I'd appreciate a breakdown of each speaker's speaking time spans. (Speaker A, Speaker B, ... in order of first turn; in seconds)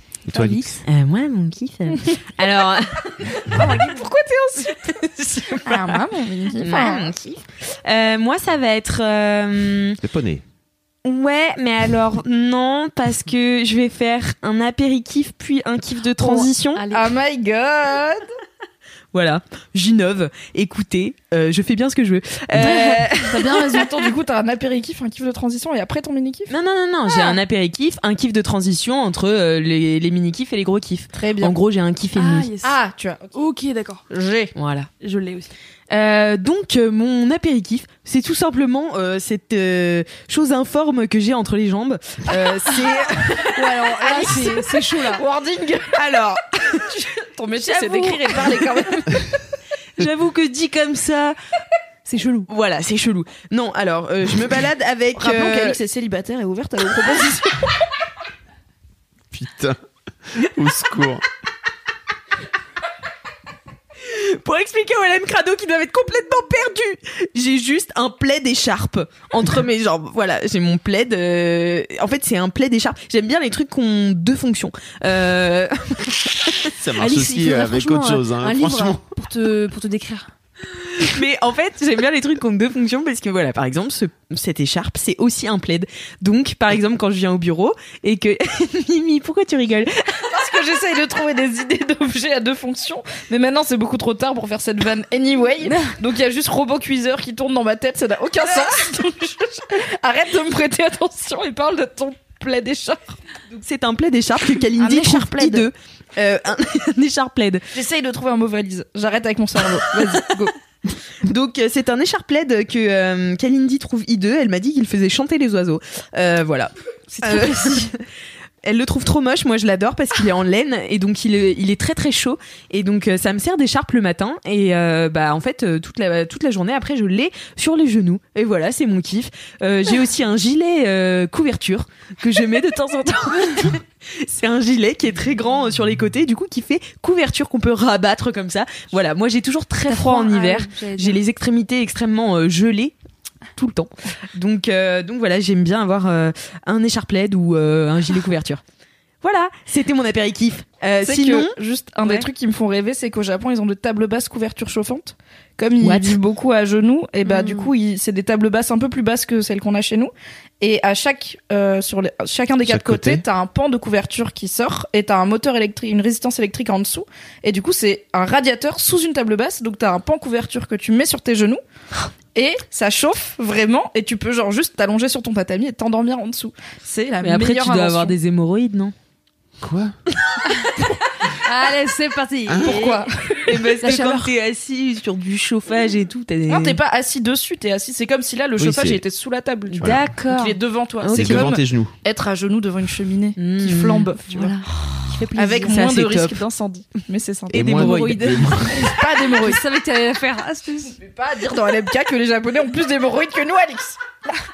Speaker A: 0.2-0.8, 10.0-10.4, 59.3-59.8, 60.3-61.2, 76.7-79.0, 162.6-163.2, 179.6-179.9, 182.5-182.8, 188.6-189.0, 191.1-191.9, 197.5-198.8
Speaker B: 0.3-0.8, 3.5-4.1, 16.2-17.1, 22.6-24.1, 32.1-32.7, 33.3-34.0, 35.0-35.5, 43.5-45.2, 52.0-52.5, 77.0-80.3, 95.6-95.9, 117.1-117.9, 139.8-141.2, 157.2-157.7, 181.4-184.3, 190.1-190.5, 194.3-195.8, 197.8-200.9
Speaker C: 0.8-3.3, 4.9-6.0, 6.6-10.0, 11.0-16.8, 19.1-23.4, 26.5-32.5, 34.5-34.9, 35.9-43.5, 45.9-46.9, 47.7-48.4, 50.0-51.4, 52.5-55.8, 64.0-76.7, 80.8-90.2, 103.6-107.6, 111.2-118.0, 118.6-142.9, 143.5-148.6, 149.2-152.3, 155.8-156.2, 177.2-178.9, 182.7-186.8, 189.7-190.3, 191.0-191.5, 193.4-194.1, 195.7-196.4, 197.5-198.1
Speaker D: 3.5-5.0, 5.6-7.1, 16.9-18.3, 23.4-26.5, 31.1-31.5, 32.6-33.4, 34.1-34.5, 43.8-46.0, 46.9-49.3, 55.1-57.7, 90.3-103.2, 104.8-105.7, 107.7-110.5, 151.0-171.6, 172.3-178.2, 182.6-183.1, 186.5-194.6, 195.3-199.6, 200.9-204.0